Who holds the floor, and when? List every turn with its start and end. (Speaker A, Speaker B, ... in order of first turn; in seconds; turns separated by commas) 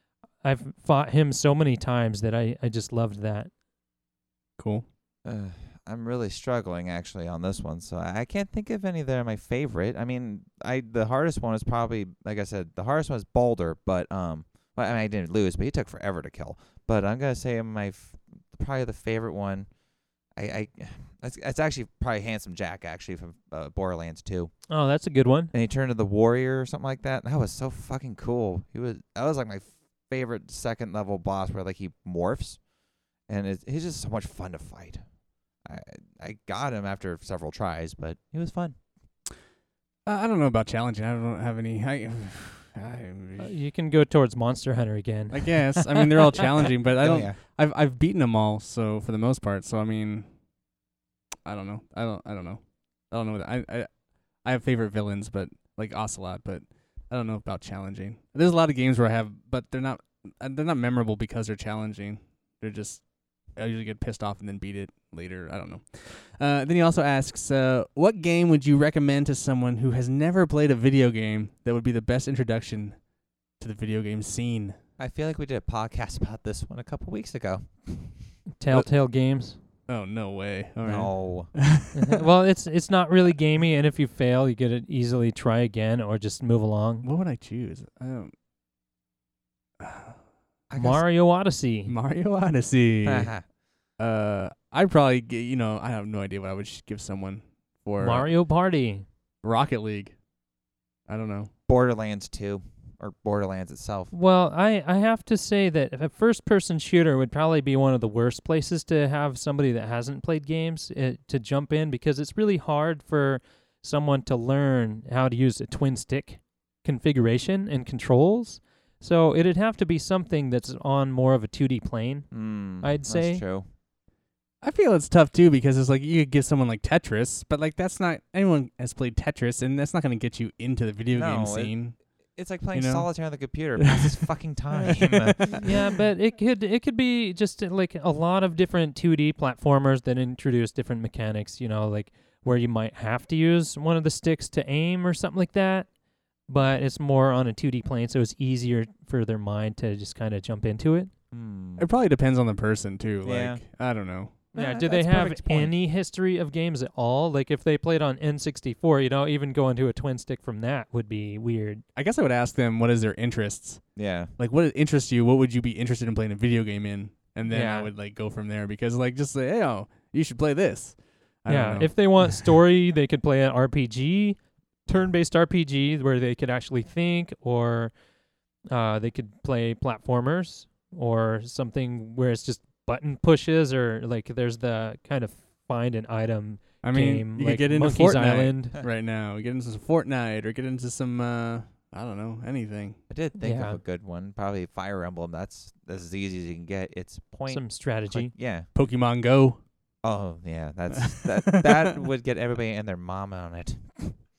Speaker A: 0.4-3.5, Speaker B: 4.6-4.8, Speaker C: 5.2-19.7, Speaker C: 20.4-24.5, Speaker A: 24.7-25.5, Speaker C: 25.5-32.6, Speaker C: 33.3-35.0, Speaker C: 35.6-38.8, Speaker B: 40.0-43.5, Speaker A: 43.4-46.4, Speaker B: 45.3-50.2, Speaker C: 47.0-47.4, Speaker B: 51.4-53.9, Speaker B: 54.4-63.0, Speaker B: 63.5-73.0, Speaker B: 73.6-74.8, Speaker C: 75.0-78.3, Speaker A: 78.6-79.6, Speaker B: 79.9-82.2, Speaker C: 80.8-81.5, Speaker A: 81.9-87.1, Speaker B: 87.0-88.3, Speaker B: 89.8-90.2, Speaker C: 90.7-91.0, Speaker A: 90.8-91.9, Speaker B: 91.9-93.3, Speaker C: 93.0-93.4, Speaker B: 94.0-98.3, Speaker A: 98.0-99.0, Speaker B: 99.4-100.1, Speaker B: 101.1-101.5, Speaker C: 101.7-104.1, Speaker A: 104.1-122.3, Speaker C: 122.3-123.7, Speaker A: 122.8-123.4, Speaker B: 124.6-131.9, Speaker C: 131.1-131.8, Speaker C: 132.3-135.6, Speaker B: 132.7-133.1, Speaker B: 133.8-134.2, Speaker B: 134.8-135.8, Speaker A: 135.5-145.9, Speaker A: 146.5-151.1, Speaker C: 151.3-151.9, Speaker B: 151.8-154.3, Speaker C: 153.2-153.6, Speaker C: 154.5-155.7, Speaker A: 154.5-161.8, Speaker B: 161.9-163.8, Speaker C: 163.9-164.3, Speaker B: 164.4-172.3, Speaker A: 167.5-167.9, Speaker A: 171.5-177.9, Speaker A: 178.7-188.8, Speaker B: 186.8-193.0, Speaker C: 193.1-198.7, Speaker A: 193.4-193.8, Speaker A: 197.5-198.3, Speaker B: 198.7-199.6, Speaker C: 200.0-204.2, Speaker B: 200.9-201.9